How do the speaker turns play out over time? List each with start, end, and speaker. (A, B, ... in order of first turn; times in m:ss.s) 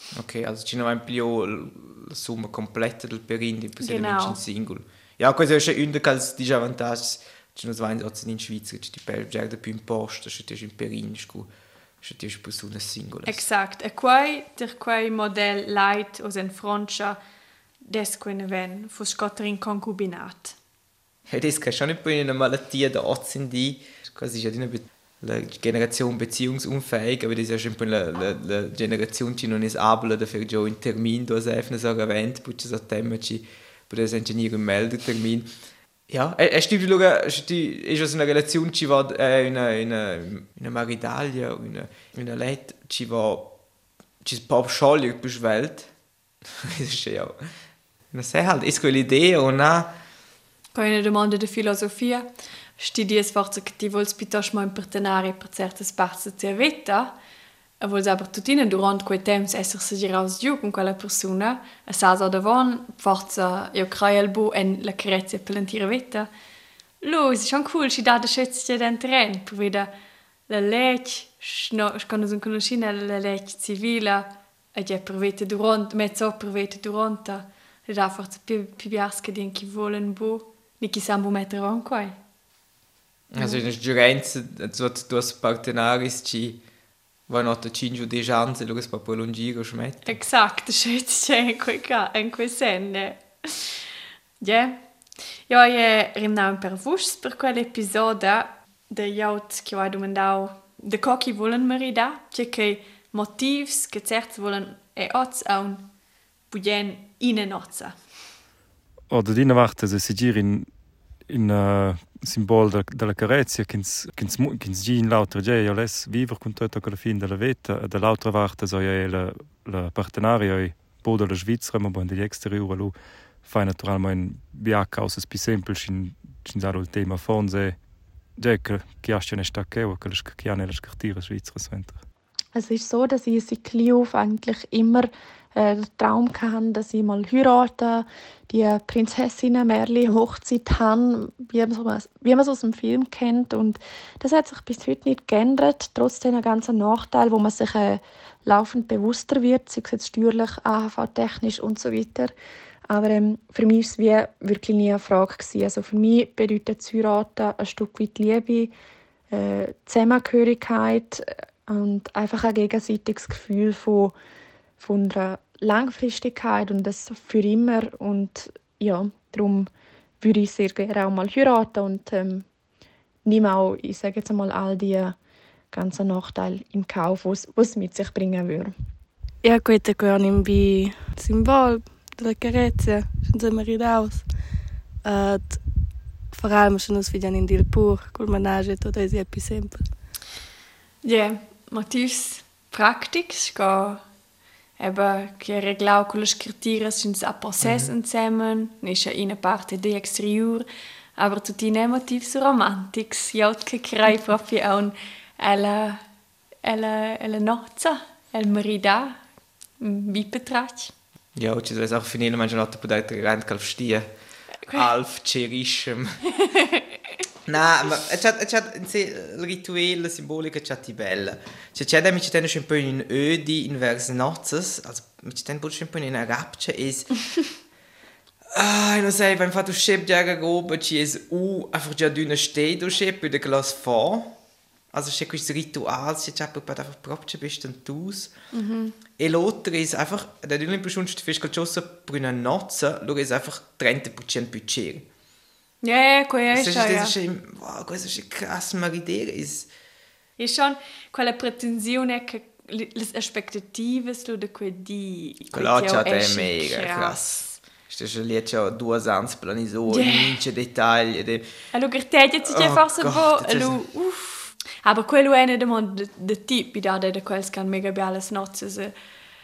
0:00.1-0:11.5 A
0:03.8-0:04.4 B
0:12.0-0:13.5 A
0:13.3-0:17.2 B
0:17.9-0:20.6 B
0:21.3-0:35.5 A
0:36.1-0:43.5 A
0:44.2-0:45.9 A
0:46.6-0:47.4 A
0:48.1-0:49.9 A
0:50.7-0:57.1 B
0:57.8-1:06.3 B
1:07.0-1:09.9 B
1:10.5-1:22.2 B
1:23.3-1:26.6 A
1:27.3-1:30.2 A
1:30.0-1:33.8 B
1:34.4-1:34.8 B
1:35.5-1:45.9 B
1:46.5-1:48.0 B
1:49.1-1:50.7 C
1:51.3-2:07.8 C
2:08.4-2:12.0 C
2:12.5-2:32.3 D
2:32.9-2:38.7 D
2:39.3-2:44.2 D
2:44.8-2:52.5 D
2:53.2-2:55.2 D
2:55.7-2:58.7 D
2:59.4-3:04.3 E
3:05.0-3:05.6 E
3:06.3-3:09.9 E
3:11.0-3:14.0 B
3:14.8-3:20.7 B
3:17.6-3:17.9 A
3:21.2-3:26.0 B
3:26.6-3:29.2 B
3:29.8-3:30.9 B
3:31.4-3:34.1 A
3:34.7-3:36.2 A
3:36.4-3:36.9 B
3:37.5-3:47.5 A
3:48.5-3:54.4 A
3:54.9-3:58.3 A
3:58.5-3:59.0 B
3:59.2-4:05.1 A
4:05.8-4:07.1 B
4:06.5-4:09.7 A
4:10.4-4:17.6 B
4:15.5-4:21.4 A
4:19.9-4:20.4 B
4:21.7-4:28.9 B
4:22.5-4:23.8 A